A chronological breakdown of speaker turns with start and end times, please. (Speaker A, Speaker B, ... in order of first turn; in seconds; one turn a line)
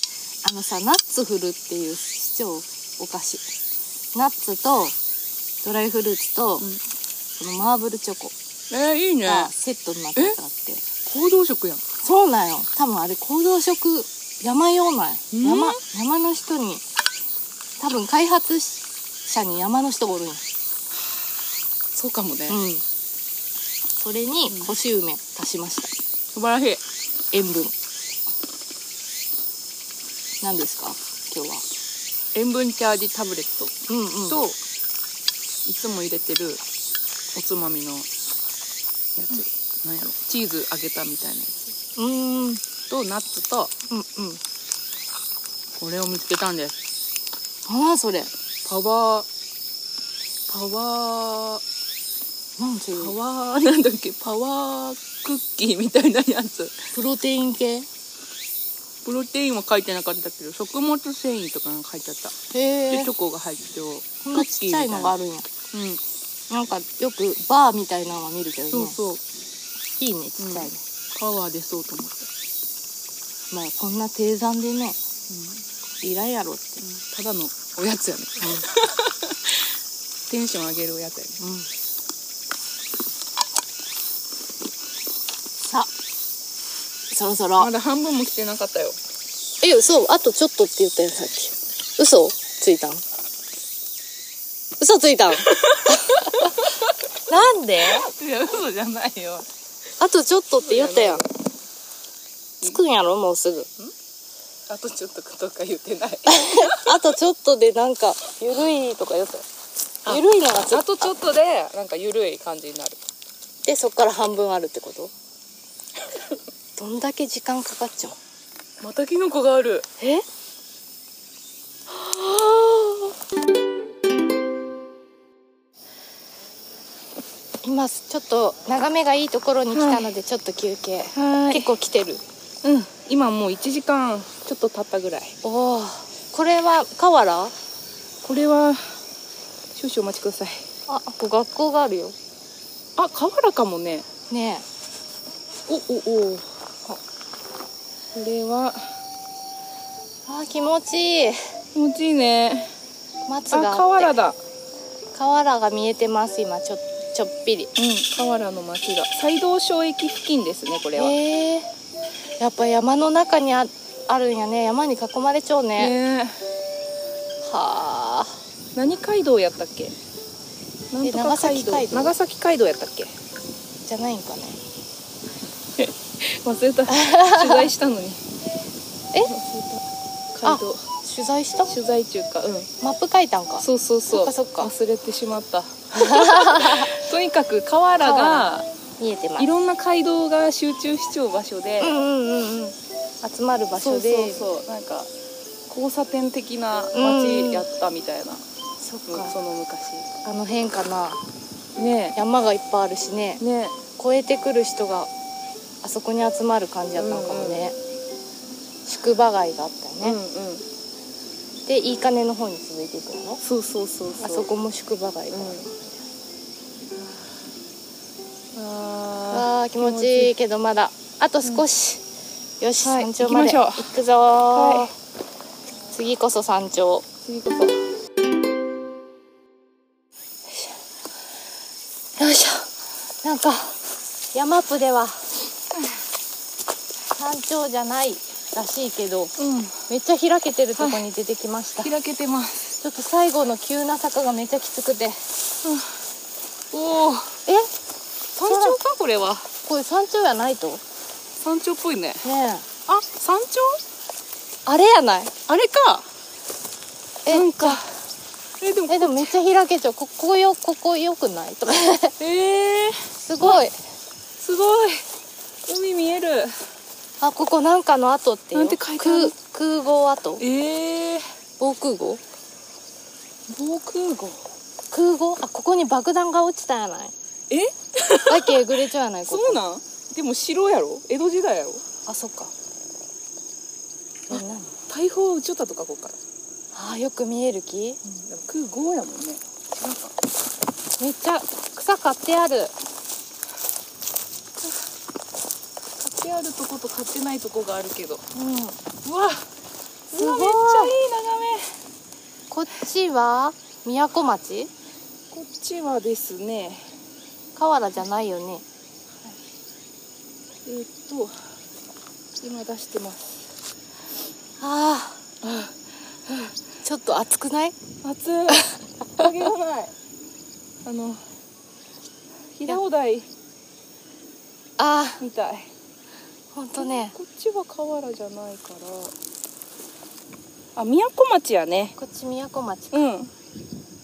Speaker A: 0.4-3.5
Speaker A: 4.1-5.0
Speaker A: 5.6-6.7
Speaker A: 7.4-8.3
Speaker B: 8.7-9.5
Speaker A: 9.2-10.9
Speaker B: 11.1-11.8
Speaker A: 12.0-16.8
Speaker B: 15.3-15.8
Speaker A: 17.8-20.4
Speaker B: 22.0-22.6
Speaker A: 22.5-22.8
Speaker A: 24.0-25.9
Speaker B: 26.4-26.8
Speaker A: 27.3-27.7
Speaker A: 30.4-31.6
Speaker B: 32.4-33.7
Speaker A: 33.9-34.4
Speaker B: 34.3-34.5
Speaker B: 35.7-36.6
Speaker B: 37.4-38.1
Speaker B: 39.2-41.6
Speaker A: 42.0-42.6
Speaker B: 42.9-43.7
Speaker A: 43.9-44.4
Speaker B: 45.8-46.7
Speaker A: 47.7-48.3
Speaker B: 48.7-49.3
Speaker B: 50.5-51.6
Speaker A: 52.6-53.2
Speaker B: 53.0-56.7
Speaker A: 56.9-57.9
Speaker B: 59.1-62.3
Speaker A: 62.5-63.1
Speaker B: 62.9-65.1
Speaker A: 64.2-65.5
Speaker B: 65.7-66.0
Speaker A: 66.5-69.0
Speaker B: 68.7-69.2
Speaker A: 70.0-70.8
Speaker B: 70.4-72.3
Speaker A: 73.5-75.0
Speaker A: 76.0-76.8
Speaker B: 76.8-79.3
Speaker B: 80.3-81.7
Speaker A: 87.1-87.7
Speaker B: 87.6-89.0
Speaker A: 89.6-93.0
Speaker A: 94.8-96.5
Speaker A: 97.3-98.1
Speaker B: 98.0-99.5
Speaker A: 100.0-101.2
Speaker B: 100.6-101.3
Speaker A: 102.6-103.7
Speaker B: 104.7-106.9
Speaker A: 106.3-109.4
Speaker A: 110.0-111.1
Speaker B: 110.0-113.0
Speaker A: 113.6-115.1
Speaker A: 116.8-118.2
Speaker B: 118.8-119.8
Speaker A: 120.0-120.2
Speaker A: 121.9-123.0
Speaker A: 127.6-132.2
Speaker B: 129.7-130.1
Speaker B: 132.6-135.3
Speaker A: 135.4-137.5
Speaker B: 138.2-138.8
Speaker B: 139.8-140.6
Speaker A: 140.9-142.2
Speaker B: 143.0-144.1
Speaker A: 144.3-144.7
Speaker B: 145.7-146.4
Speaker B: 148.1-148.9
Speaker A: 150.3-151.5
Speaker B: 151.7-152.7
Speaker A: 153.3-154.2
Speaker B: 153.5-154.4
Speaker A: 155.1-157.7
Speaker B: 157.8-161.2
Speaker A: 160.9-161.7
Speaker A: 162.4-165.9
Speaker B: 165.8-166.4
Speaker A: 167.4-168.4
Speaker B: 168.8-169.9
Speaker B: 170.9-173.1
Speaker A: 171.0-172.1
Speaker A: 173.9-174.6
Speaker B: 175.8-178.2
Speaker A: 176.9-177.6
Speaker B: 179.2-180.8
Speaker A: 180.4-181.7
Speaker B: 181.7-182.7
Speaker A: 182.8-184.7
Speaker B: 183.6-188.7
Speaker A: 185.9-186.9
Speaker A: 188.0-189.5
Speaker B: 189.4-192.0
Speaker A: 191.8-194.6
Speaker B: 193.8-195.1
Speaker B: 195.7-198.4
Speaker A: 196.9-197.7
Speaker A: 198.8-199.3
Speaker B: 199.1-200.1
Speaker A: 200.2-201.2
Speaker B: 201.8-202.2
Speaker A: 202.2-203.4
Speaker B: 203.4-203.8
Speaker A: 204.0-205.1
Speaker A: 205.8-207.8
Speaker B: 207.0-207.7
Speaker A: 208.9-210.2
Speaker B: 210.0-210.7
Speaker A: 211.7-213.4
Speaker B: 213.4-214.5
Speaker A: 214.2-216.0
Speaker B: 215.3-215.7
Speaker B: 218.6-220.3
Speaker A: 219.3-222.0
Speaker A: 222.6-224.9
Speaker B: 222.8-223.9
Speaker B: 224.5-224.9
Speaker A: 225.9-227.1
Speaker B: 227.2-227.8
Speaker A: 233.2-233.8
Speaker A: 234.3-235.2
Speaker A: 237.1-239.3
Speaker B: 239.4-239.7
Speaker A: 239.9-241.9
Speaker B: 240.8-241.0
Speaker B: 241.8-242.8
Speaker A: 242.8-245.2
Speaker B: 245.6-245.9
Speaker B: 246.7-247.4
Speaker B: 248.3-249.5
Speaker A: 248.4-248.8
Speaker A: 249.7-250.8
Speaker B: 251.4-252.2
Speaker A: 252.2-252.7
Speaker B: 252.9-253.8
Speaker A: 254.7-255.3
Speaker B: 255.5-256.1
Speaker A: 257.2-257.8
Speaker B: 257.3-257.9
Speaker B: 258.6-259.3
Speaker A: 258.9-262.1
Speaker B: 262.2-263.6
Speaker A: 263.2-263.8
Speaker B: 264.4-265.0
Speaker B: 265.7-266.5
Speaker A: 267.2-270.4
Speaker B: 268.5-269.4
Speaker B: 270.4-271.2
Speaker A: 271.6-272.2
Speaker B: 273.5-274.4
Speaker A: 274.9-277.1
Speaker B: 277.5-278.7
Speaker A: 278.3-279.6
Speaker B: 279.2-281.8
Speaker A: 282.1-282.5
Speaker A: 284.3-284.7
Speaker B: 284.3-286.2
Speaker A: 286.7-288.0
Speaker B: 288.2-290.1
Speaker A: 291.0-292.7
Speaker B: 296.0-298.2
Speaker A: 298.4-298.8
Speaker B: 299.0-299.4
Speaker B: 300.1-301.7
Speaker A: 300.1-301.0
Speaker A: 302.5-304.7
Speaker B: 305.3-306.8
Speaker A: 307.6-308.6
Speaker B: 310.7-311.3
Speaker B: 312.4-313.5
Speaker A: 314.6-315.2
Speaker B: 315.4-315.7
Speaker A: 316.8-317.8
Speaker B: 318.0-319.9
Speaker B: 320.9-321.2
Speaker B: 322.6-323.3
Speaker A: 324.8-325.2
Speaker B: 325.2-325.7
Speaker A: 326.5-327.1
Speaker B: 326.8-329.1
Speaker B: 330.8-332.0
Speaker A: 332.0-333.1
Speaker B: 332.9-333.3